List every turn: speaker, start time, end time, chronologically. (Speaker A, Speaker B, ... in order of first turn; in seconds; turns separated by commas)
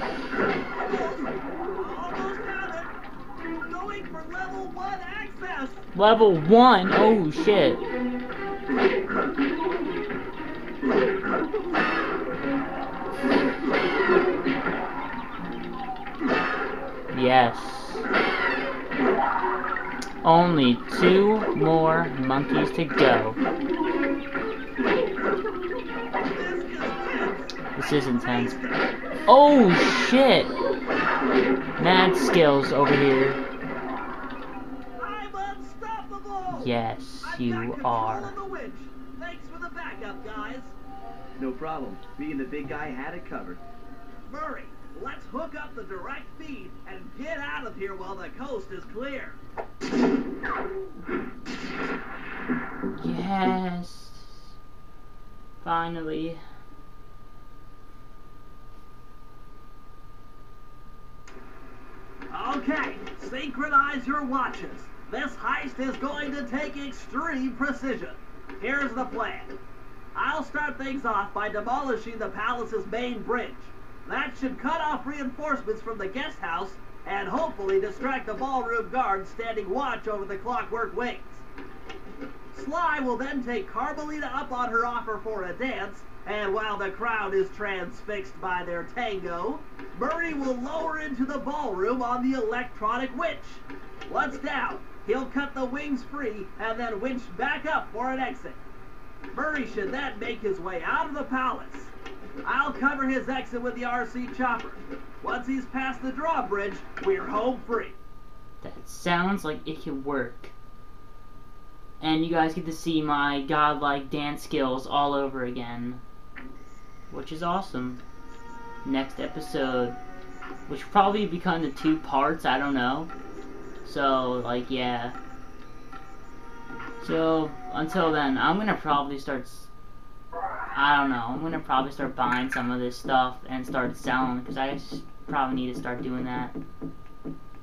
Speaker A: 0.7-2.9, Speaker A: 3.6-5.8, Speaker B: 5.9-7.8, Speaker B: 17.1-18.1, Speaker B: 20.2-23.4, Speaker A: 26.3-27.6, Speaker B: 27.7-28.5, Speaker A: 28.1-28.9, Speaker B: 29.3-30.5, Speaker B: 31.8-33.4, Speaker A: 35.0-40.7, Speaker B: 36.5-38.3, Speaker C: 41.4-43.6, Speaker A: 44.3-49.4, Speaker B: 53.0-54.5, Speaker B: 55.6-56.4, Speaker A: 62.3-69.5, Speaker A: 70.1-81.4, Speaker A: 82.5-98.6, Speaker A: 99.3-101.9, Speaker A: 102.4-108.0, Speaker B: 108.6-110.5, Speaker B: 112.0-116.0, Speaker B: 117.1-118.0, Speaker B: 118.8-120.0, Speaker B: 120.7-123.1, Speaker B: 123.8-125.2, Speaker B: 127.0-129.7, Speaker B: 130.7-136.5